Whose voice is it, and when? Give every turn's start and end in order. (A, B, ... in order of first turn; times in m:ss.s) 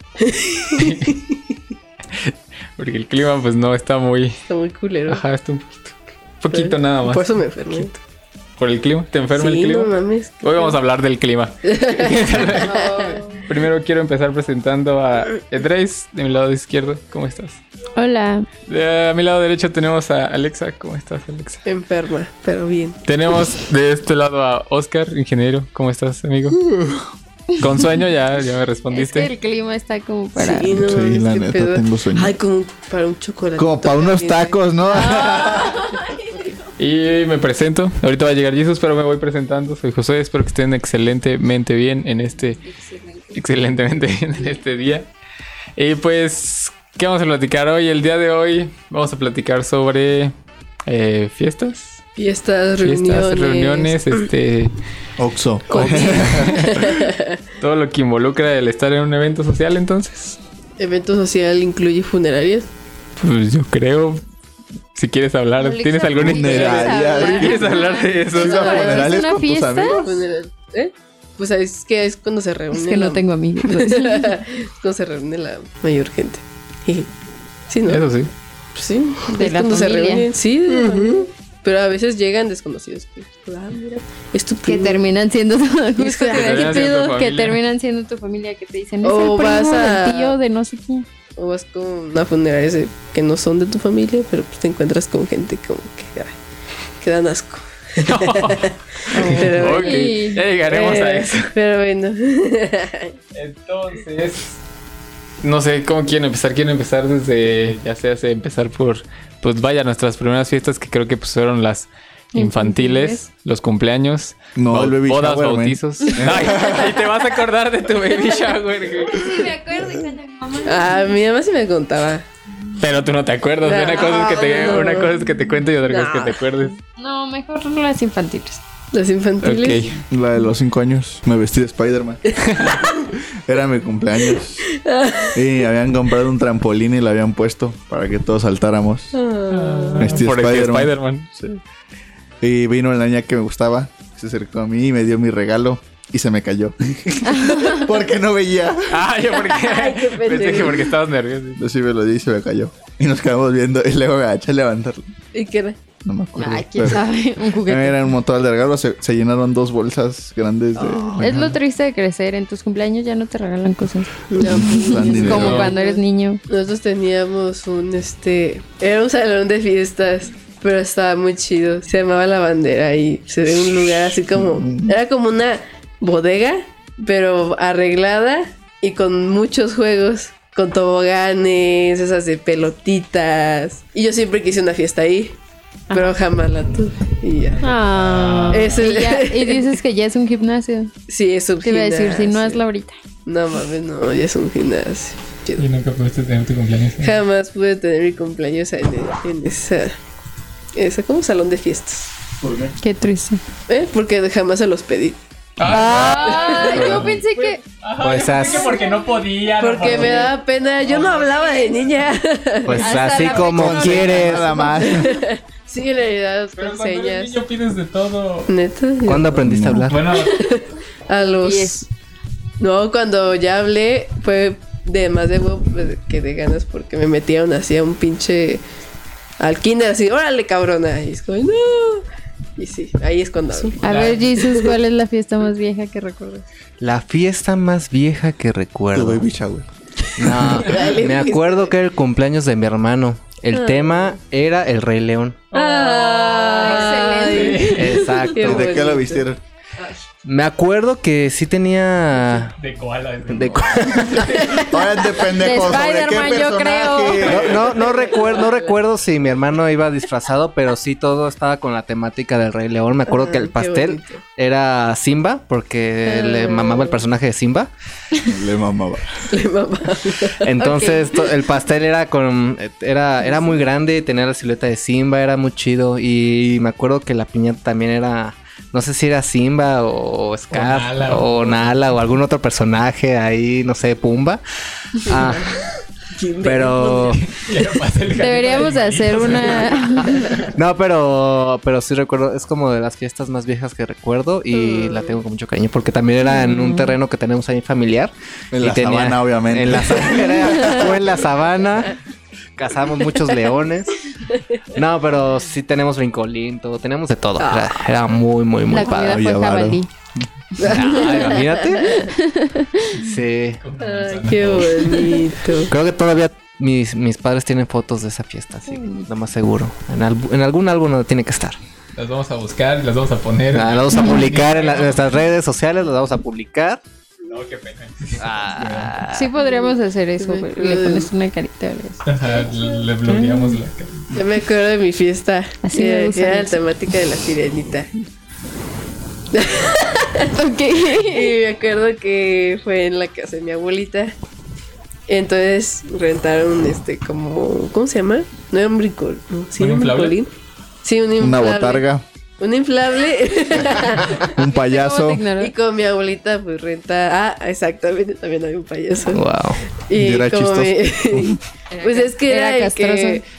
0:00.2-0:01.1 A
0:00.7-0:01.2 B
0:02.1-0:04.4 B
0:04.5-0:05.2 A
0:05.1-0:07.9 B
0:06.5-0:07.9 A
0:08.6-0:17.6 B
0:09.3-0:10.8 A
0:11.7-0:13.2 A
0:12.6-0:13.4 C
0:18.0-0:18.5 C
0:18.7-0:21.6 B
0:21.6-0:23.0 A
0:23.0-0:26.6 B
0:27.6-0:29.3 B
0:28.9-0:30.8 C
0:30.4-0:35.8 A
0:30.7-0:32.3 D
0:33.6-0:35.8 D
0:35.3-0:36.1 C
0:36.8-0:42.6 B
0:42.7-0:43.4 C
0:43.3-0:45.1 B
0:45.8-0:50.3 B
0:50.9-0:52.0 B
0:52.2-0:54.2 A
0:52.8-0:54.8 B
0:55.2-0:56.5 D
0:55.7-0:57.4 A
0:55.7-1:00.4 B
1:00.8-1:02.7 A
1:03.2-1:04.2 B
1:04.9-1:08.9 B
1:05.6-1:10.1 C
1:06.2-1:10.0 D
1:08.6-1:09.0 A
1:09.9-1:17.1 A
1:12.7-1:14.4 C
1:17.7-1:18.1 A
1:17.9-1:18.3 B
1:18.7-1:25.0 A
1:19.3-1:20.3 C
1:24.6-1:31.0 C
1:26.0-1:26.8 A
1:26.3-1:27.6 B
1:29.0-1:30.3 A
1:31.4-1:36.3 A
1:37.0-1:43.1 A
1:38.0-1:41.5 B
1:39.1-1:40.4 C
1:43.3-1:44.6 B
1:45.4-1:59.4 B
1:52.3-1:53.2 C
1:54.6-1:56.9 D
1:59.1-2:01.0 C
2:00.6-2:02.2 A
2:02.8-2:06.8 B
2:03.6-2:05.3 A
2:05.8-2:06.6 A
2:07.0-2:08.6 C
2:08.9-2:09.9 A
2:09.4-2:10.0 B
2:10.1-2:14.6 D
2:12.4-2:12.8 B
2:14.8-2:15.4 A
2:15.3-2:19.1 D
2:19.1-2:20.1 A
2:19.5-2:21.3 B
2:20.0-2:21.6 D
2:22.4-2:29.0 D
2:27.3-2:27.8 C
2:28.9-2:31.6 B
2:29.5-2:30.9 A
2:31.6-2:35.1 D
2:35.3-2:35.8 A
2:36.0-2:37.1 D
2:36.3-2:37.9 C
2:37.6-2:41.6 D
2:40.8-2:41.2 A
2:41.2-2:46.4 C
2:44.3-3:05.4 A
2:44.4-2:45.7 D
2:45.1-2:45.8 B
2:54.3-2:55.0 D
3:05.9-3:06.2 C
3:05.9-3:07.6 A
3:07.5-3:09.0 B
3:07.6-3:10.9 C
3:08.5-3:09.7 A
3:11.1-3:12.6 A
3:11.6-3:12.9 C
3:13.2-3:15.6 A
3:15.6-3:17.2 B
3:17.0-3:20.0 A
3:20.7-3:22.1 A
3:22.4-3:22.7 D
3:22.8-3:23.4 C
3:23.7-3:25.2 A
3:25.6-3:32.1 B
3:25.6-3:27.6 C
3:26.0-3:27.1 A
3:28.0-3:28.7 E
3:28.4-3:29.1 C
3:29.6-3:33.0 A
3:32.6-3:34.5 E
3:32.8-3:35.0 C
3:33.3-3:35.2 D
3:34.5-3:37.4 A
3:36.6-3:38.5 B
3:38.5-3:39.5 A
3:39.0-3:40.0 E
3:39.4-3:39.9 D
3:39.9-3:40.4 B
3:40.0-3:41.8 A
3:41.4-3:41.8 C
3:42.6-3:48.6 A
3:49.4-3:52.0 A
3:52.6-3:54.7 A
3:53.8-3:54.2 B
3:53.8-3:56.4 C
3:56.8-3:59.2 E
3:58.9-3:59.6 D
4:00.2-4:05.4 E
4:00.2-4:00.6 D
4:00.3-4:01.7 A
4:03.5-4:04.0 A
4:05.5-4:08.0 B
4:05.5-4:09.2 A
4:06.5-4:07.8 C
4:07.7-4:08.8 E
4:08.4-4:09.4 D
4:10.2-4:12.5 E
4:12.6-4:14.8 B
4:13.3-4:14.4 E
4:14.4-4:14.7 A
4:14.6-4:17.7 D
4:15.4-4:17.3 C
4:17.2-4:17.7 B
4:17.2-4:27.7 E
4:17.7-4:18.8 A
4:23.1-4:24.2 A
4:26.0-4:27.0 A
4:28.2-4:29.2 D
4:29.3-4:31.3 A
4:30.4-4:44.4 E
4:30.6-4:31.1 C
4:40.5-4:41.7 B
4:44.9-4:45.6 E
4:45.0-4:47.2 A
4:46.4-4:47.2 E
4:47.0-4:50.4 B
4:48.2-4:50.4 C
4:50.5-5:01.9 E
4:54.6-4:55.2 A
4:56.4-4:56.9 C
4:58.5-5:01.0 D
5:02.6-5:03.9 E
5:04.3-5:04.8 A
5:04.7-5:09.2 E
5:07.4-5:07.8 A
5:08.7-5:09.9 C
5:09.0-5:09.8 D
5:10.6-5:12.0 E
5:10.6-5:12.1 A
5:11.7-5:13.0 C
5:12.9-5:13.6 E
5:13.6-5:15.2 B
5:13.8-5:15.7 A
5:15.7-5:21.6 E
5:21.9-5:25.2 B
5:23.5-5:26.8 E
5:27.2-5:29.0 B
5:28.2-5:29.3 E
5:29.1-5:32.0 C
5:29.4-5:31.1 A
5:32.0-5:34.1 B
5:32.2-5:32.7 A
5:33.1-5:33.6 C
5:34.1-5:37.9 A
5:35.6-5:36.6 C
5:39.3-5:44.1 A
5:40.3-5:41.3 C
5:45.1-5:50.3 A
5:49.6-5:50.2 B
5:50.8-5:51.8 A
5:51.2-5:52.0 D
5:52.4-5:54.3 A
5:54.2-5:55.2 D
5:54.4-5:55.5 C
5:55.4-5:59.2 A
5:59.1-5:59.6 E
5:59.9-6:03.2 A
5:59.9-6:01.4 D
6:01.7-6:03.2 C